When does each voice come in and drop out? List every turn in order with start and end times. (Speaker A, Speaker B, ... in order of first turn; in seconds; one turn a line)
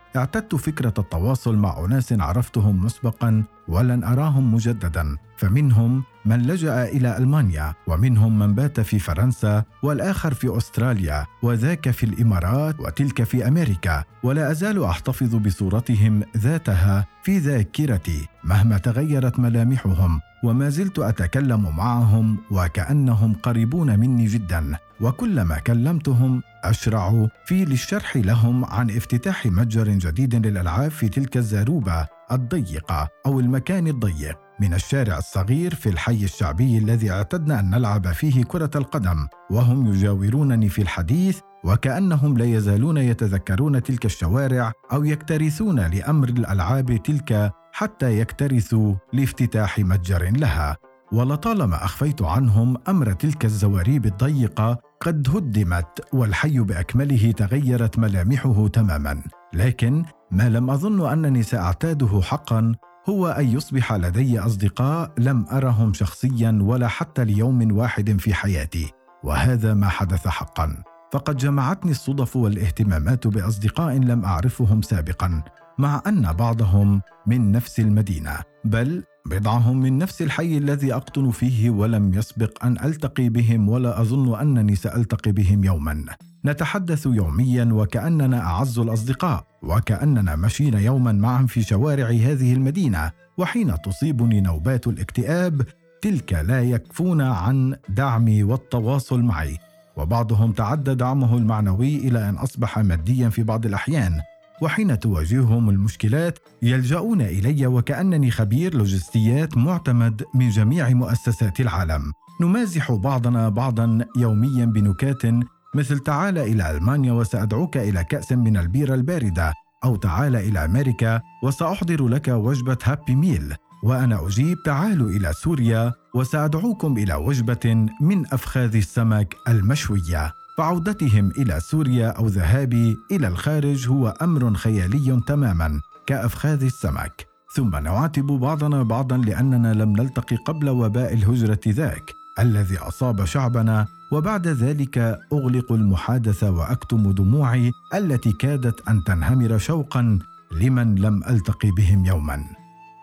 Speaker A: 0.2-152.5